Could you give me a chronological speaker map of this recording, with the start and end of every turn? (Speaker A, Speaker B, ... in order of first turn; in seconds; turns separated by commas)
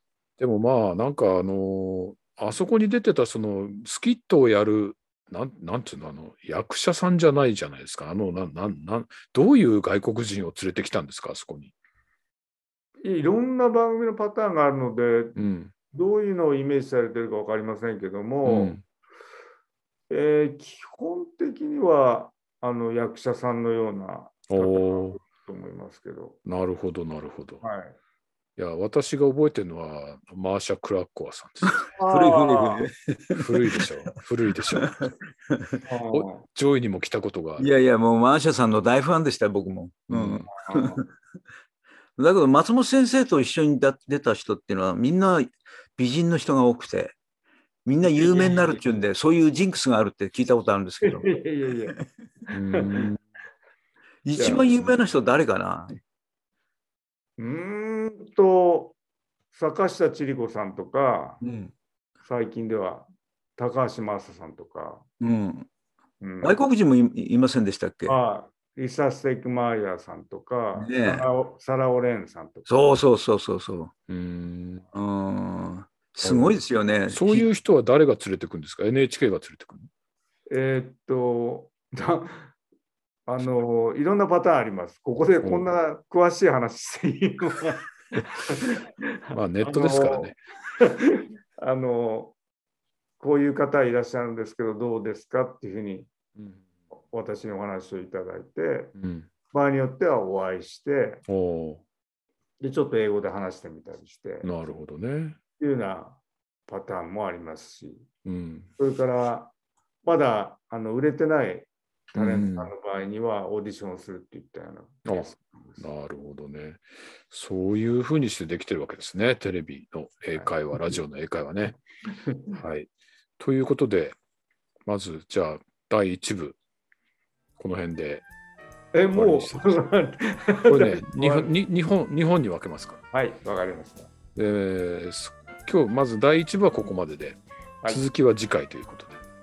Speaker A: 0.4-11.7, Speaker B: 13.0-15.3, Speaker A: 15.3-15.7, Speaker B: 15.9-18.8, Speaker A: 18.4-18.8, Speaker B: 20.1-26.4, Speaker A: 24.5-25.2, Speaker A: 26.4-27.6, Speaker B: 27.6-27.9, Speaker A: 28.6-31.9, Speaker B: 32.0-32.8, Speaker C: 32.1-33.4, Speaker A: 33.4-35.0, Speaker C: 34.7-35.8, Speaker B: 35.9-36.4, Speaker A: 36.1-37.7, Speaker C: 37.6-41.1, Speaker A: 40.1-40.5, Speaker B: 40.6-41.0, Speaker C: 42.2-47.1, Speaker C: 47.9-51.3, Speaker B: 48.1-48.8, Speaker B: 51.0-52.0, Speaker B: 52.5-53.0, Speaker A: 52.5-53.2, Speaker C: 54.2-56.0, Speaker B: 54.4-54.7, Speaker B: 57.4-59.0, Speaker B: 59.5-61.4, Speaker C: 61.4-61.7, Speaker B: 62.2-65.0, Speaker C: 65.2-65.7, Speaker B: 66.2-66.6, Speaker C: 66.4-68.2, Speaker B: 68.0-72.7, Speaker C: 70.8-71.2, Speaker C: 72.7-73.9, Speaker A: 74.1-74.9, Speaker C: 74.9-77.5, Speaker A: 76.2-79.9, Speaker B: 80.5-82.5, Speaker B: 83.3-87.9, Speaker A: 88.2-88.4, Speaker B: 88.5-92.3, Speaker A: 89.3-90.4, Speaker B: 93.2-96.1, Speaker A: 96.3-96.7, Speaker B: 97.1-98.9, Speaker A: 99.0-99.3, Speaker B: 99.5-101.2, Speaker A: 101.3-101.8, Speaker B: 102.6-104.5, Speaker A: 104.4-105.4, Speaker B: 105.6-108.0, Speaker A: 108.2-108.7, Speaker B: 108.8-109.5, Speaker B: 110.0-115.9, Speaker A: 112.1-112.7, Speaker A: 115.0-121.8, Speaker B: 120.4-121.0, Speaker B: 122.2-122.6, Speaker A: 122.5-124.2, Speaker A: 124.8-126.6, Speaker A: 127.6-128.2, Speaker B: 128.9-131.5, Speaker A: 129.1-129.8, Speaker A: 130.7-133.0, Speaker B: 133.1-134.1, Speaker A: 134.3-139.2